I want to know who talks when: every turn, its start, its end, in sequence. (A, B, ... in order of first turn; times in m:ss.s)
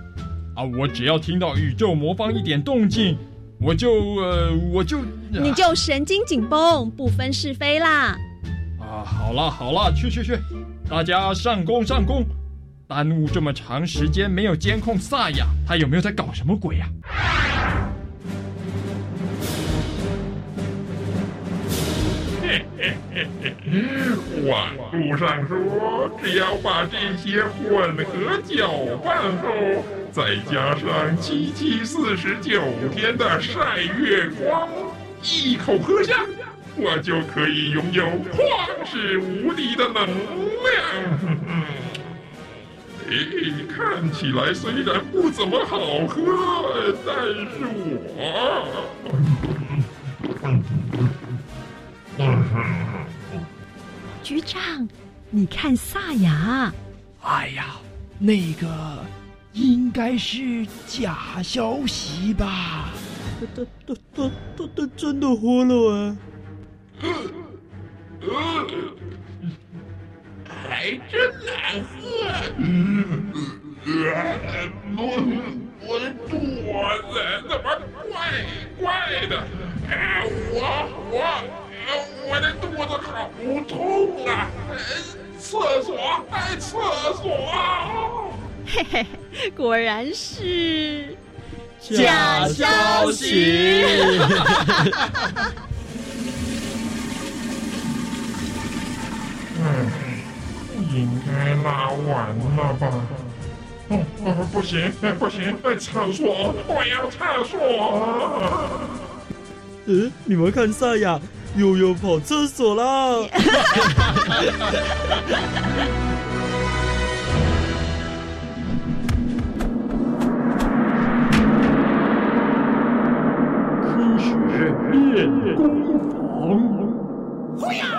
0:00.5-0:05.6 A
0:05.3-0:08.2 B
0:08.8-0:12.3 A
0:12.9-0:16.9 A
0:22.4-0:41.9 C
0:43.0-0:49.7 C
0:50.4-0:51.1 C
0:52.2-0:53.1 C
0:54.2-0:56.8 B
0:57.2-1:03.0 D
1:03.4-1:06.2 E
1:08.3-1:08.9 C
1:10.5-1:28.4 C
1:28.6-1:31.2 B
1:31.8-1:35.0 E
1:31.9-1:34.8 B
1:39.5-1:43.2 C
1:43.9-1:48.9 C
1:49.8-1:54.5 E
2:03.8-2:07.0 A